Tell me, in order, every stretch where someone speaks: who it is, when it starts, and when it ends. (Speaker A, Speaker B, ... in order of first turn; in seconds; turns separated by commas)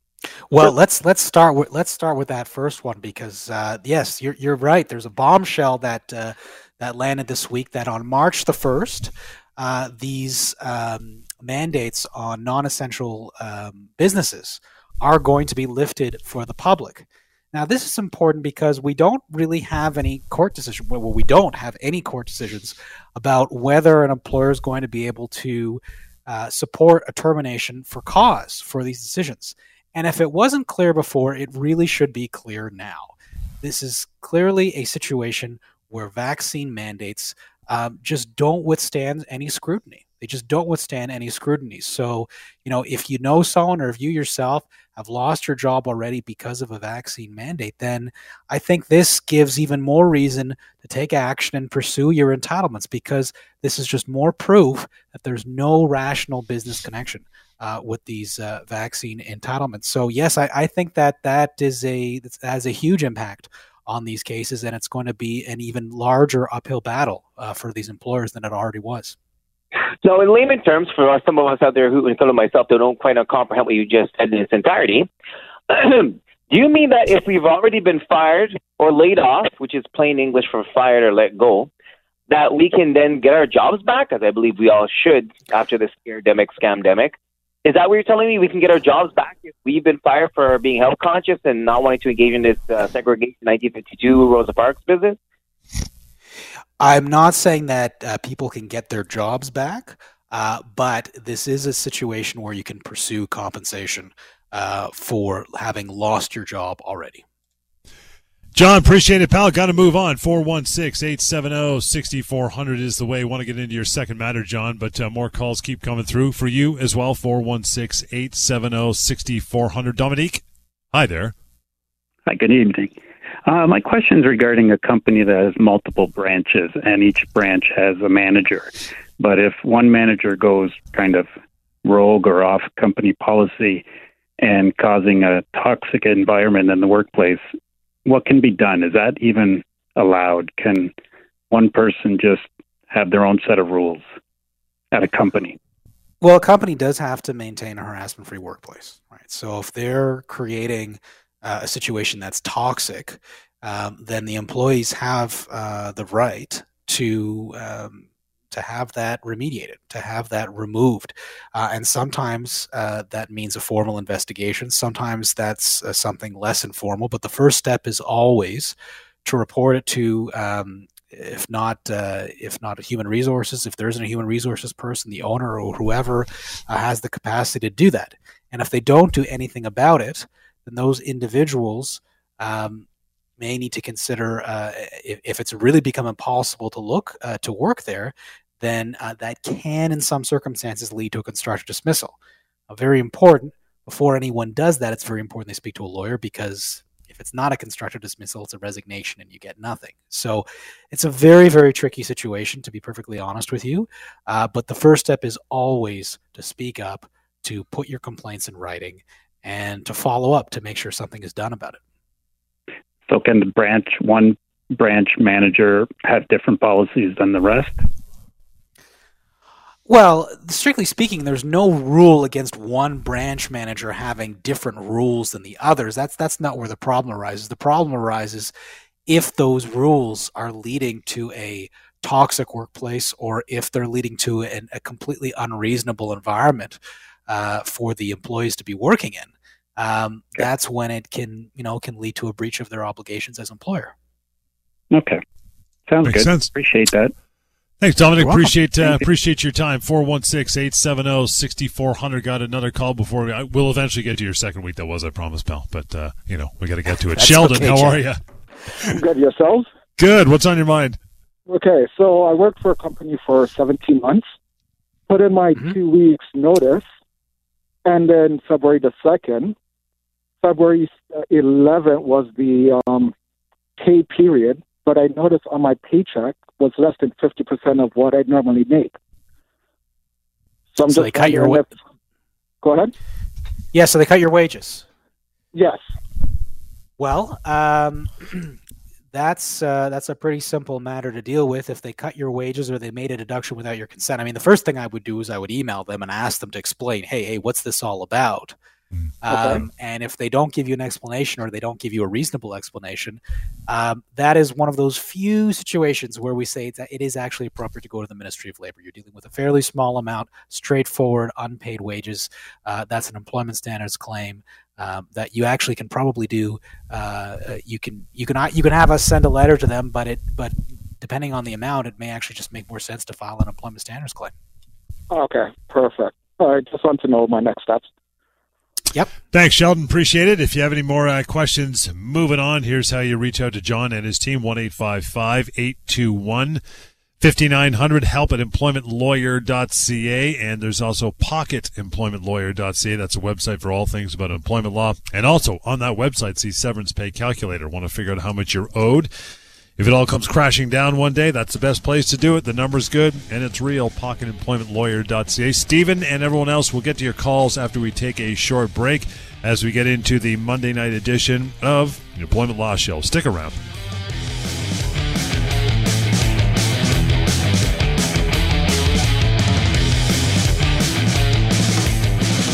Speaker A: 0.5-69.2, Speaker B: 70.0-75.1, Speaker B: 75.7-81.7, Speaker B: 82.3-95.2, Speaker A: 96.8-107.2, Speaker C: 108.5-121.3, Speaker D: 122.3-123.0, Speaker D: 123.5-131.3, Speaker D: 131.8-133.9, Speaker D: 134.4-137.4, Speaker D: 138.1-140.9, Speaker D: 141.5-144.0, Speaker D: 144.9-145.6, Speaker A: 146.2-182.9, Speaker A: 183.4-192.2, Speaker A: 192.7-211.8, Speaker D: 213.1-217.8, Speaker A: 219.9-228.5, Speaker A: 229.1-243.9, Speaker D: 244.9-245.2, Speaker D: 245.9-247.1, Speaker C: 246.0-246.5, Speaker C: 247.8-258.2, Speaker A: 248.2-248.5, Speaker A: 257.1-258.0, Speaker E: 258.8-259.7, Speaker C: 260.0-261.0, Speaker E: 261.5-264.3, Speaker E: 265.1-266.9, Speaker E: 267.9-269.6, Speaker E: 270.4-273.1, Speaker E: 273.8-279.0, Speaker E: 280.7-281.7, Speaker A: 280.9-281.6, Speaker E: 282.6-282.9, Speaker A: 283.7-284.9, Speaker E: 285.5-285.8, Speaker A: 287.0-288.5, Speaker A: 289.1-298.6, Speaker A: 299.2-324.3, Speaker E: 299.3-299.6, Speaker E: 325.1-327.9, Speaker C: 329.3-336.6, Speaker C: 337.2-349.1, Speaker C: 349.8-363.6